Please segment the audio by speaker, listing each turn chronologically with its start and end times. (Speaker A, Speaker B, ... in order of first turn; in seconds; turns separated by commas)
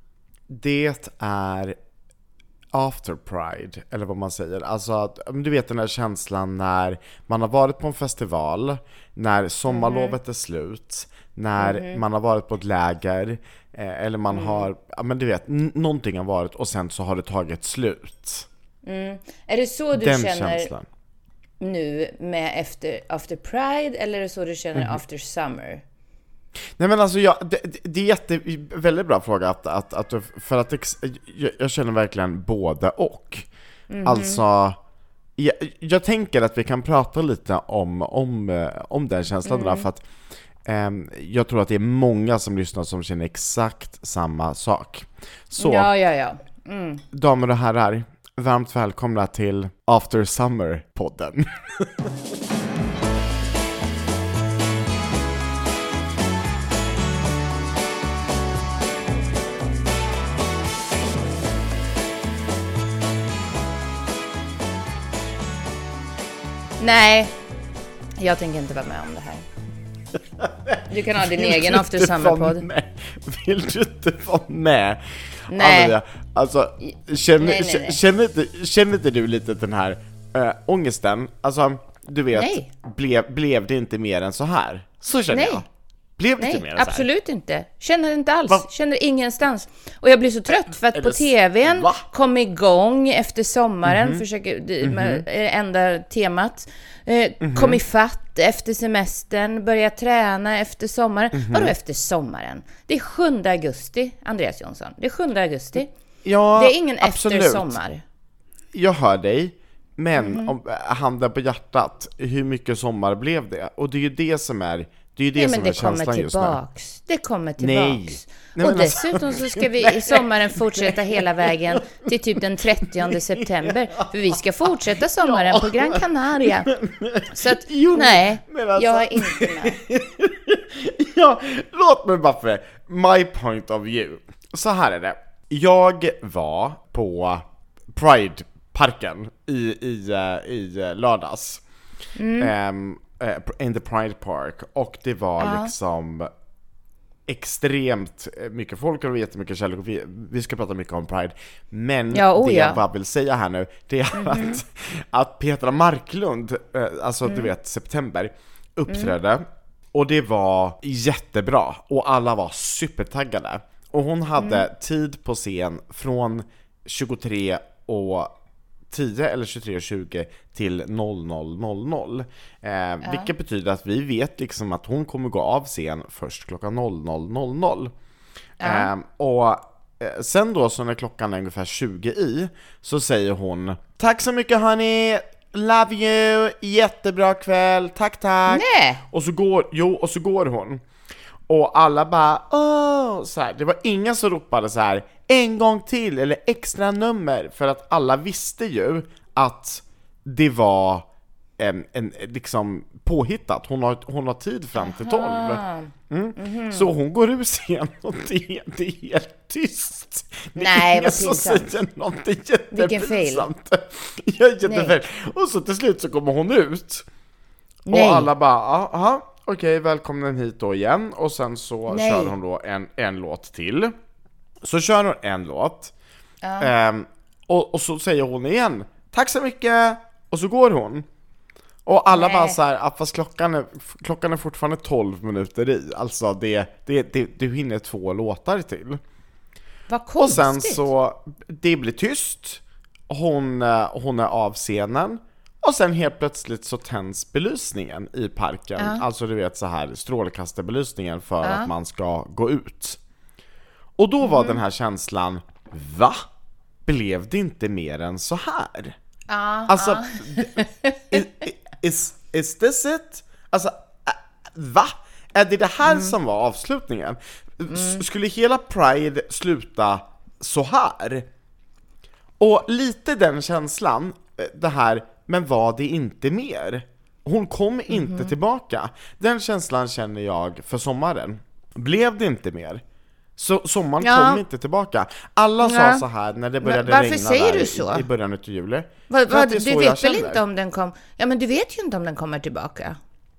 Speaker A: 0.5-1.8, Speaker A: 2.7-18.5, Speaker B: 9.7-10.1, Speaker B: 11.6-12.0, Speaker B: 14.3-14.7, Speaker B: 18.8-20.7, Speaker A: 19.9-20.9, Speaker B: 21.6-25.8, Speaker A: 26.8-33.5, Speaker B: 33.9-34.4, Speaker A: 34.0-34.8, Speaker A: 35.4-40.0, Speaker B: 39.5-39.9, Speaker A: 40.6-45.9, Speaker B: 45.6-47.0, Speaker A: 47.1-52.1, Speaker B: 66.8-67.3, Speaker B: 68.2-69.4, Speaker A: 70.4-87.0, Speaker B: 70.9-72.7, Speaker B: 75.5-76.0, Speaker B: 77.4-78.0, Speaker B: 82.3-82.7, Speaker B: 85.3-85.6, Speaker B: 86.4-105.9, Speaker A: 90.9-92.0, Speaker A: 93.8-94.2, Speaker A: 94.8-95.2, Speaker A: 97.4-97.8, Speaker A: 101.3-101.7, Speaker A: 106.2-107.8, Speaker B: 106.5-108.0, Speaker A: 108.7-116.6, Speaker B: 110.2-110.5, Speaker B: 115.3-126.7, Speaker A: 117.6-122.1, Speaker A: 122.8-124.1, Speaker A: 124.6-141.6, Speaker B: 127.3-129.8, Speaker B: 142.2-142.5, Speaker A: 142.4-146.3, Speaker B: 145.4-145.7, Speaker A: 147.3-168.3, Speaker B: 152.1-152.8, Speaker B: 154.1-154.6, Speaker B: 164.4-164.6, Speaker A: 168.9-177.9, Speaker B: 173.0-173.3, Speaker B: 178.6-178.9, Speaker A: 178.6-190.8, Speaker B: 188.5-189.0, Speaker A: 191.5-201.0, Speaker A: 201.6-217.0, Speaker B: 204.8-206.9, Speaker B: 210.6-211.7, Speaker B: 212.7-213.5, Speaker B: 214.6-214.9, Speaker B: 217.9-218.3, Speaker A: 217.9-223.9, Speaker B: 221.9-222.3, Speaker A: 224.6-225.9, Speaker B: 226.4-226.7, Speaker A: 226.6-231.0, Speaker A: 231.8-239.0, Speaker B: 232.1-232.6, Speaker B: 239.9-240.8, Speaker A: 240.2-253.0, Speaker B: 248.8-249.0, Speaker B: 251.4-251.7, Speaker A: 254.0-256.2, Speaker B: 254.2-254.6, Speaker A: 256.9-258.9, Speaker B: 259.3-261.2, Speaker A: 259.7-271.3, Speaker B: 265.8-266.1, Speaker B: 267.7-268.0, Speaker A: 272.4-282.8, Speaker B: 277.9-278.3, Speaker A: 283.4-290.4, Speaker B: 284.0-284.4, Speaker B: 285.6-286.0, Speaker B: 286.6-288.0, Speaker B: 289.1-293.0